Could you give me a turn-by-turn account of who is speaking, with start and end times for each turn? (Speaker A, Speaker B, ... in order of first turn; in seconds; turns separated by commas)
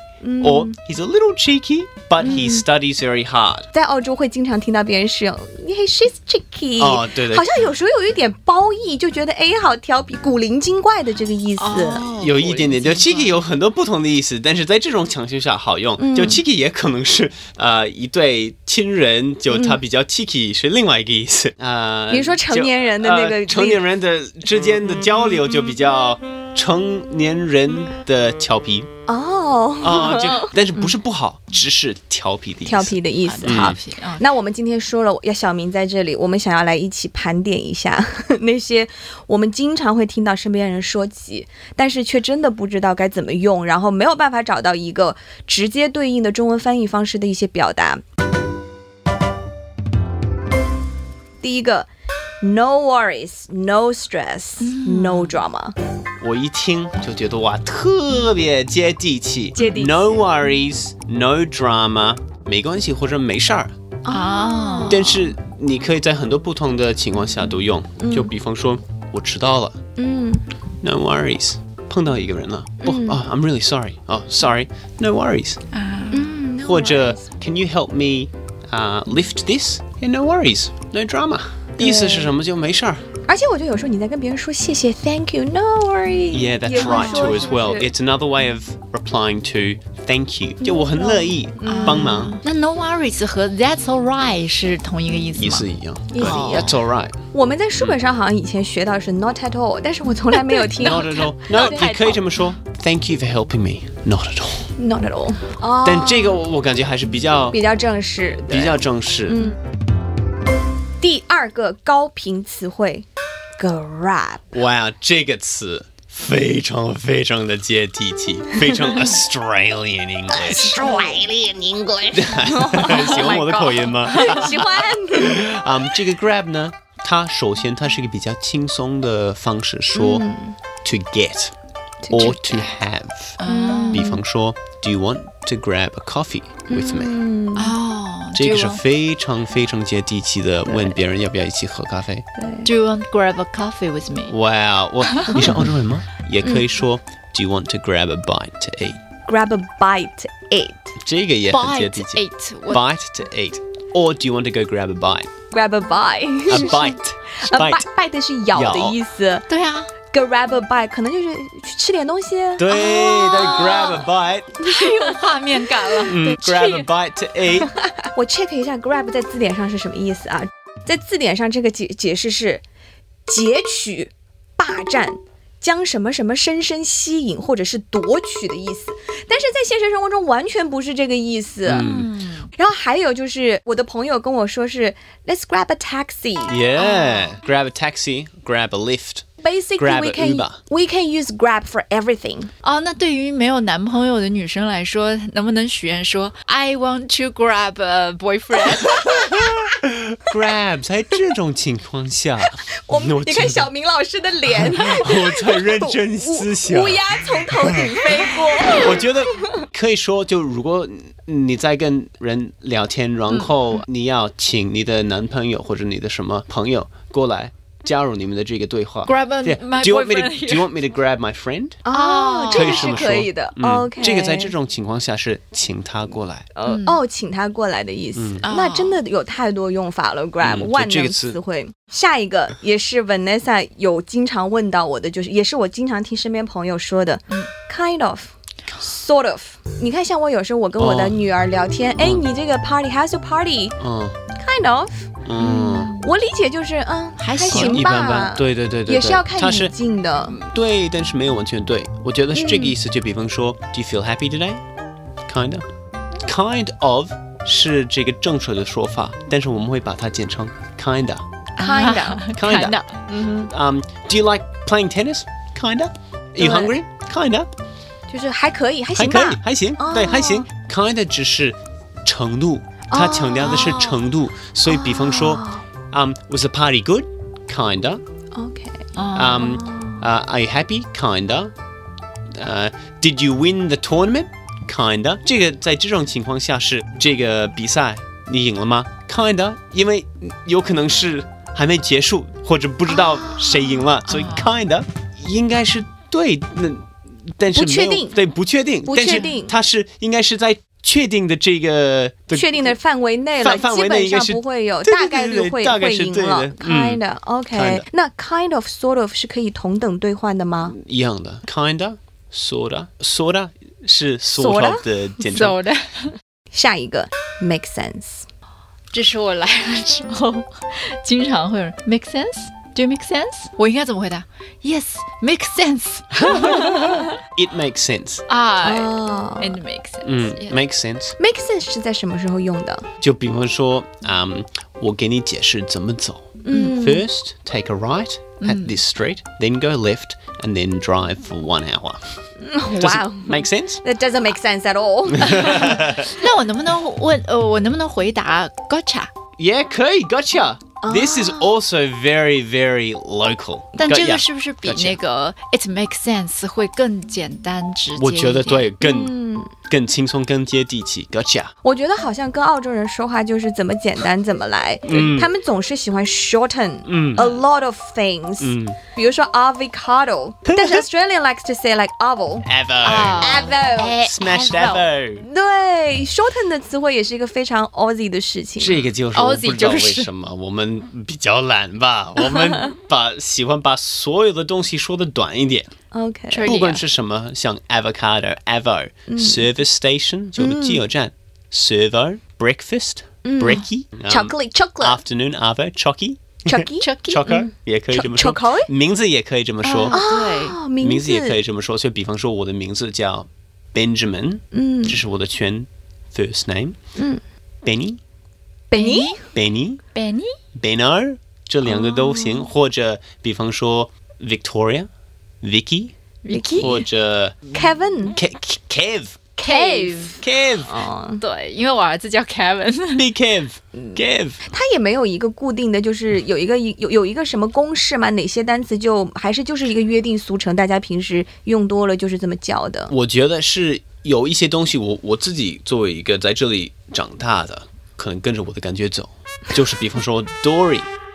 Speaker A: 0.2-0.8, Speaker B: 0.4-3.7, Speaker C: 2.2-2.6, Speaker A: 3.7-12.1, Speaker B: 6.8-7.7, Speaker C: 11.6-13.4, Speaker B: 12.2-28.9, Speaker A: 16.0-16.4, Speaker A: 19.5-19.8, Speaker A: 22.1-23.9, Speaker A: 29.1-30.5, Speaker B: 29.8-33.8, Speaker A: 32.6-48.0, Speaker C: 33.2-34.2, Speaker A: 51.4-51.9, Speaker A: 52.4-55.7, Speaker C: 54.6-55.4, Speaker B: 56.2-63.7, Speaker A: 59.6-60.2, Speaker A: 64.0-65.2, Speaker C: 64.1-65.2, Speaker B: 64.9-69.8, Speaker A: 68.0-68.3, Speaker A: 70.0-70.5, Speaker B: 70.8-75.6, Speaker A: 72.8-73.2, Speaker C: 75.7-76.3, Speaker A: 76.1-77.2, Speaker B: 76.6-83.0, Speaker A: 81.8-82.3, Speaker A: 83.3-87.9, Speaker B: 86.3-92.4, Speaker C: 86.7-87.5, Speaker A: 90.6-92.4, Speaker C: 91.7-95.6, Speaker B: 95.3-97.2, Speaker A: 96.1-96.7, Speaker C: 96.2-96.7, Speaker A: 97.3-101.9, Speaker C: 100.4-102.2, Speaker B: 100.8-104.7, Speaker A: 104.8-106.4, Speaker B: 105.8-107.6, Speaker A: 107.5-109.6, Speaker B: 108.5-109.5, Speaker A: 111.0-113.0, Speaker A: 113.6-114.5, Speaker B: 114.5-130.2, Speaker A: 120.3-121.3, Speaker A: 121.9-125.5, Speaker C: 123.0-123.4, Speaker A: 129.9-130.6, Speaker B: 130.8-131.5, Speaker A: 132.0-132.7, Speaker B: 132.1-133.4, Speaker C: 133.4-134.1, Speaker A: 133.4-134.2, Speaker B: 133.9-137.1, Speaker A: 136.7-137.8, Speaker C: 137.6-138.8, Speaker B: 138.3-142.2, Speaker A: 140.7-140.9, Speaker A: 142.4-142.7, Speaker C: 142.6-144.4, Speaker B: 144.3-149.0, Speaker C: 145.1-145.5, Speaker A: 149.3-150.9, Speaker B: 151.0-155.3, Speaker C: 151.5-152.8, Speaker A: 155.5-159.5, Speaker B: 156.5-157.8, Speaker B: 158.5-159.0, Speaker C: 159.5-159.9, Speaker A: 160.1-162.8, Speaker B: 162.6-164.6, Speaker C: 162.7-164.0, Speaker A: 164.6-165.2, Speaker C: 164.6-166.9, Speaker A: 165.7-166.1, Speaker B: 166.0-167.7, Speaker A: 167.9-172.6, Speaker A: 173.3-181.9, Speaker B: 181.7-182.1, Speaker C: 181.7-182.5, Speaker A: 182.6-186.6, Speaker B: 186.5-189.2, Speaker C: 186.8-187.3, Speaker A: 189.4-192.5, Speaker B: 189.8-190.6, Speaker C: 192.6-199.3, Speaker A: 198.9-199.3, Speaker B: 199.1-203.7, Speaker A: 202.8-209.6, Speaker B: 204.5-221.8, Speaker C: 219.1-220.7, Speaker A: 221.8-224.5, Speaker C: 221.9-223.1, Speaker B: 222.5-226.5, Speaker A: 226.6-243.8, Speaker C: 226.6-227.0, Speaker B: 228.2-228.4, Speaker C: 228.4-229.0, Speaker B: 230.4-231.4, Speaker B: 240.8-241.2, Speaker B: 242.0-242.3, Speaker B: 243.8-244.2, Speaker A: 244.3-245.1, Speaker B: 245.2-245.9, Speaker C: 245.4-246.1, Speaker A: 245.9-250.4, Speaker C: 247.2-247.8, Speaker B: 247.5-249.7, Speaker B: 250.2-254.6, Speaker A: 252.3-252.7, Speaker B: 255.2-255.6, Speaker B: 256.2-261.2, Speaker A: 261.6-262.3, Speaker C: 261.6-262.9, Speaker B: 262.3-262.8, Speaker A: 263.1-263.5, Speaker B: 263.5-267.5, Speaker A: 266.4-266.7, Speaker A: 268.1-270.5, Speaker B: 268.9-278.0, Speaker A: 272.9-274.0, Speaker A: 274.7-275.6, Speaker A: 278.3-278.8, Speaker C: 278.9-279.5, Speaker B: 279.1-281.5, Speaker A: 279.4-280.0, Speaker B: 282.3-302.7, Speaker A: 292.9-293.8, Speaker C: 294.1-294.5, Speaker A: 297.5-298.2, Speaker A: 298.8-299.5, Speaker A: 302.3-310.8, Speaker B: 303.4-307.9, Speaker B: 310.7-315.6, Speaker A: 314.4-314.8, Speaker C: 315.3-316.1, Speaker A: 316.5-318.2, Speaker C: 318.9-327.0, Speaker B: 326.1-328.2, Speaker C: 328.3-330.6, Speaker A: 328.6-329.6, Speaker B: 330.0-331.2, Speaker A: 331.2-332.9, Speaker B: 333.0-342.0, Speaker A: 336.4-337.0, Speaker C: 338.4-338.7, Speaker A: 342.4-346.0, Speaker B: 342.7-343.8, Speaker B: 345.1-346.1, Speaker C: 345.6-349.1, Speaker B: 349.4-355.0, Speaker A: 350.8-351.5, Speaker C: 353.8-358.7, Speaker B: 357.9-361.5, Speaker A: 358.8-359.5, Speaker A: 361.6-372.5, Speaker B: 364.8-365.3, Speaker B: 366.9-367.3, Speaker B: 368.4-368.8, Speaker B: 370.4-370.8, Speaker B: 372.4-375.2, Speaker C: 372.8-374.9, Speaker A: 373.2-374.1, Speaker A: 375.2-378.9, Speaker B: 378.6-385.7, Speaker C: 379.1-380.1, Speaker A: 382.2-382.7, Speaker A: 385.9-386.5, Speaker C: 386.3-386.8, Speaker B: 386.4-400.0, Speaker A: 389.1-389.5, Speaker A: 390.4-390.8, Speaker A: 393.2-395.0, Speaker A: 396.4-398.7, Speaker C: 396.8-397.3, Speaker C: 399.6-400.6, Speaker A: 399.9-401.4, Speaker B: 400.8-406.8, Speaker A: 404.5-405.0, Speaker A: 406.9-407.2, Speaker B: 407.6-408.0, Speaker A: 408.7-409.2, Speaker C: 408.7-409.2, Speaker B: 409.3-409.8, Speaker C: 409.9-410.4, Speaker B: 410.5-414.9, Speaker C: 412.0-412.3, Speaker B: 415.4-415.9, Speaker C: 416.2-416.8, Speaker A: 416.3-416.8, Speaker B: 416.5-417.5, Speaker A: 417.5-418.2, Speaker B: 418.1-419.2, Speaker A: 419.4-421.2, Speaker C: 419.4-420.2, Speaker B: 420.2-420.7, Speaker C: 421.2-423.1, Speaker B: 422.9-424.4, Speaker A: 423.8-432.9, Speaker B: 432.9-440.9